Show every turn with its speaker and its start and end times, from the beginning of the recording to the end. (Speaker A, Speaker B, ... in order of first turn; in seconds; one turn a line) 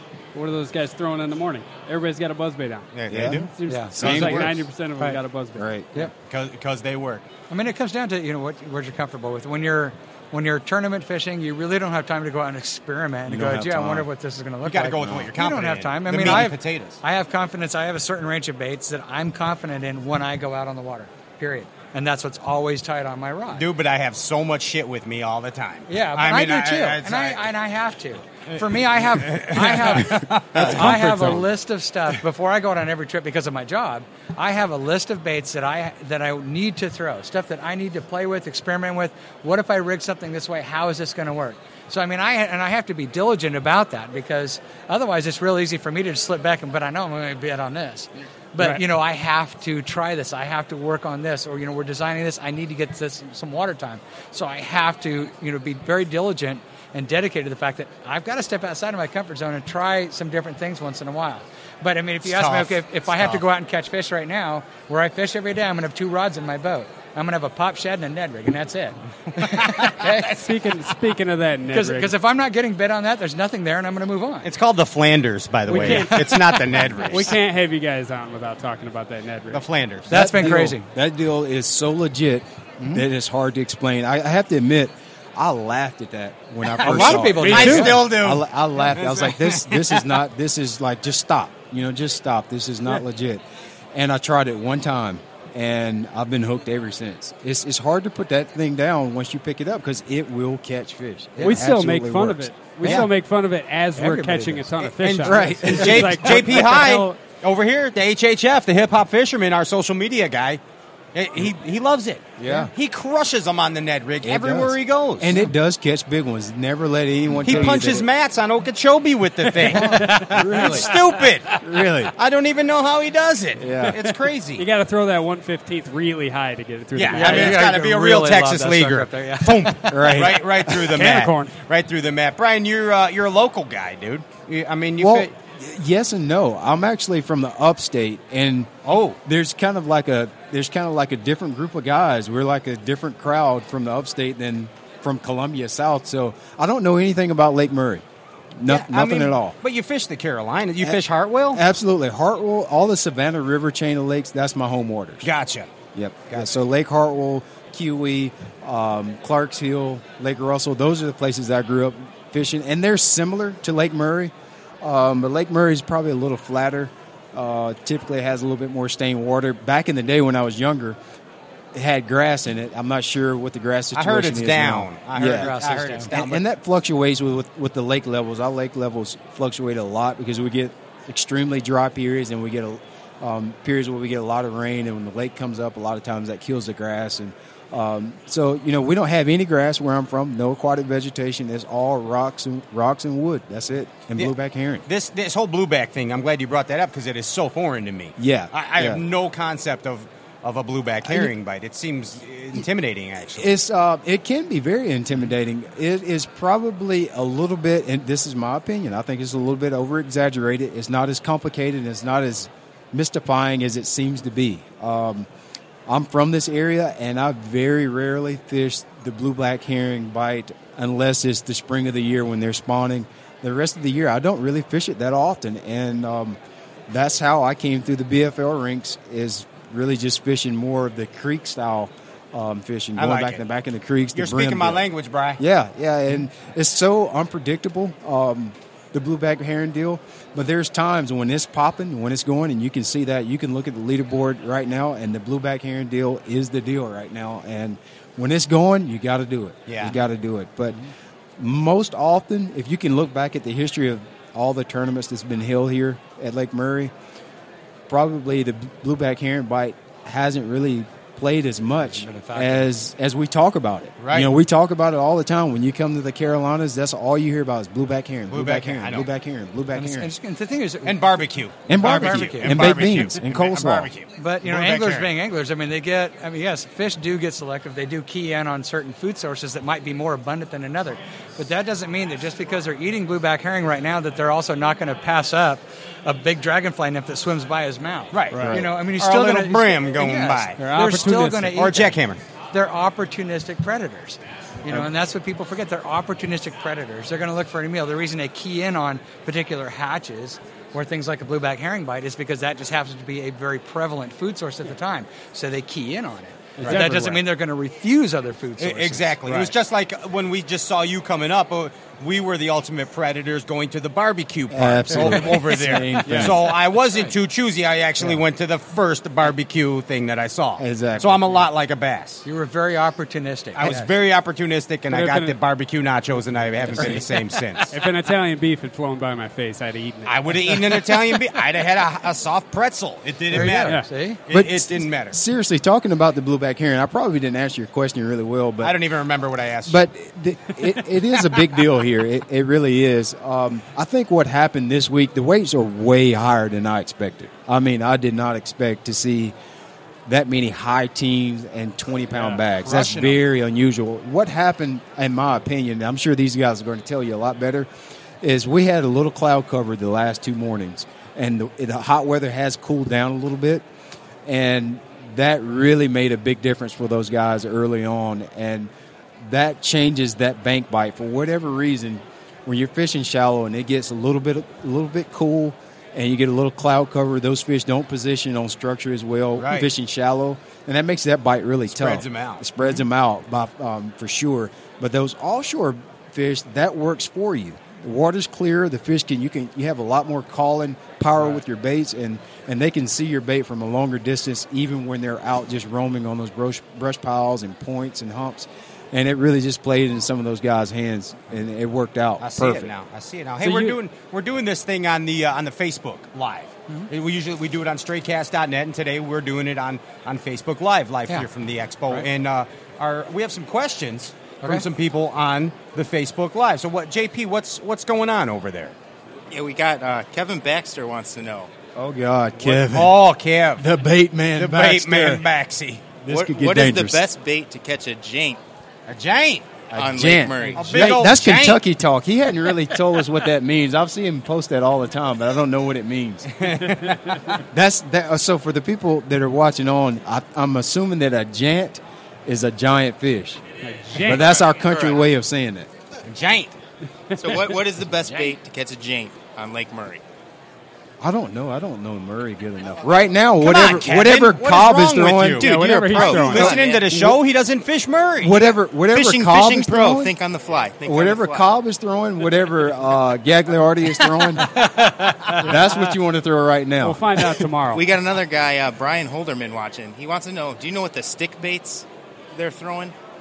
Speaker A: 0.3-5.7
Speaker B: 2.9-4.5
Speaker C: 3.1-4.6
Speaker D: 3.7-4.0
Speaker C: 5.5-5.9
Speaker B: 6.3-7.2
Speaker D: 7.5-23.7
Speaker C: 13.3-14.1
Speaker B: 14.6-17.0
Speaker C: 15.0-15.3
Speaker B: 23.5-27.5
Speaker D: 25.9-70.4
Speaker B: 28.5-30.9
Speaker A: 30.6-31.5
Speaker B: 62.2-63.4
Speaker B: 69.4-70.3
Speaker A: 70.3-72.2
Speaker D: 71.7-74.5
Speaker B: 74.4-77.3
Speaker A: 75.7-79.7
Speaker D: 75.7-76.4
Speaker B: 79.5-80.1
Speaker C: 80.1-93.4
Speaker D: 80.1-80.9
Speaker B: 86.8-90.2
Speaker D: 86.8-88.0
Speaker A: 87.3-88.0
Speaker C: 93.9-103.1
Speaker A: 101.4-107.2
Speaker D: 104.0-104.8
Speaker B: 105.0-110.6
Speaker C: 105.2-106.6
Speaker B: 111.2-115.4
Speaker C: 112.4-112.7
Speaker C: 114.2-118.1
Speaker B: 117.4-121.6
Speaker C: 119.7-120.9
Speaker D: 119.8-120.8
Speaker C: 121.6-122.1
Speaker B: 122.2-124.7
Speaker C: 123.6-124.0
Speaker A: 124.6-127.6
Speaker B: 127.0-135.3
Speaker D: 127.1-130.1
Speaker C: 129.9-131.0
Speaker A: 130.9-131.6
Speaker C: 135.0-138.7
Speaker B: 138.8-139.2
Speaker C: 139.2-148.0
Speaker C: 148.6-149.6
Speaker B: 148.7-151.6
Speaker C: 151.5-155.3
Speaker B: 155.2-155.7
Speaker C: 155.9-171.0
Speaker C: 171.7-194.9
Speaker B: 173.9-176.4
Speaker D: 175.2-176.1
Speaker B: 194.9-203.6
Speaker C: 198.2-199.0
Speaker C: 201.1-201.3
Speaker C: 203.4-215.3
Speaker C: 215.9-226.4
Speaker C: 226.9-234.8
Speaker B: 233.0-233.4
Speaker B: 234.2-235.4
Speaker C: 235.4-250.8
Speaker B: 249.7-250.0
Speaker C: 251.4-256.9
Speaker C: 257.9-270.1
Speaker D: 261.9-262.7
Speaker B: 264.0-264.3
Speaker B: 268.3-269.1
Speaker D: 269.7-272.8
Speaker B: 270.9-275.1
Speaker C: 271.7-273.9
Speaker D: 274.2-291.9
Speaker B: 288.1-290.6
Speaker A: 288.3-288.6
Speaker C: 288.4-288.7
Speaker A: 290.6-291.6
Speaker B: 291.5-292.2
Speaker D: 292.5-309.4
Speaker A: 306.6-307.2
Speaker B: 308.6-322.2
Speaker C: 314.5-316.5
Speaker A: 316.1-316.4
Speaker C: 320.6-321.4
Speaker D: 322.2-323.8
Speaker B: 323.6-327.8
Speaker A: 324.9-325.4
Speaker A: 326.7-327.0
Speaker A: 327.7-330.9
Speaker B: 330.1-335.2
Speaker D: 333.3-334.2
Speaker A: 333.4-333.9
Speaker C: 334.3-338.8
Speaker B: 338.6-339.9
Speaker C: 339.7-349.4
Speaker C: 350.1-357.7
Speaker B: 352.3-353.2
Speaker C: 358.2-363.6
Speaker C: 364.3-368.7
Speaker C: 369.2-402.7
Speaker B: 379.4-379.7
Speaker B: 381.7-382.5
Speaker B: 402.2-418.8
Speaker A: 403.4-403.8
Speaker E: 419.3-421.5
Speaker C: 421.8-423.0
Speaker B: 422.4-423.6
Speaker C: 423.6-425.2
Speaker B: 424.4-425.9
Speaker C: 426.0-427.0
Speaker E: 426.1-428.4
Speaker B: 428.9-429.6
Speaker C: 429.7-436.5
Speaker E: 429.7-430.9
Speaker B: 430.5-431.6
Speaker B: 436.3-437.4
Speaker C: 437.4-443.4
Speaker A: 443.6-444.3
Speaker C: 444.0-445.7
Speaker E: 444.0-445.0
Speaker B: 446.1-446.6
Speaker E: 447.2-450.0
Speaker C: 451.0-455.6
Speaker B: 453.4-458.4
Speaker A: 455.4-456.6
Speaker E: 455.5-456.9
Speaker C: 456.5-457.1
Speaker C: 458.2-460.1
Speaker E: 458.9-461.4
Speaker C: 460.8-464.7
Speaker D: 464.4-465.5
Speaker C: 465.4-467.2
Speaker A: 466.8-467.8
Speaker E: 467.7-472.9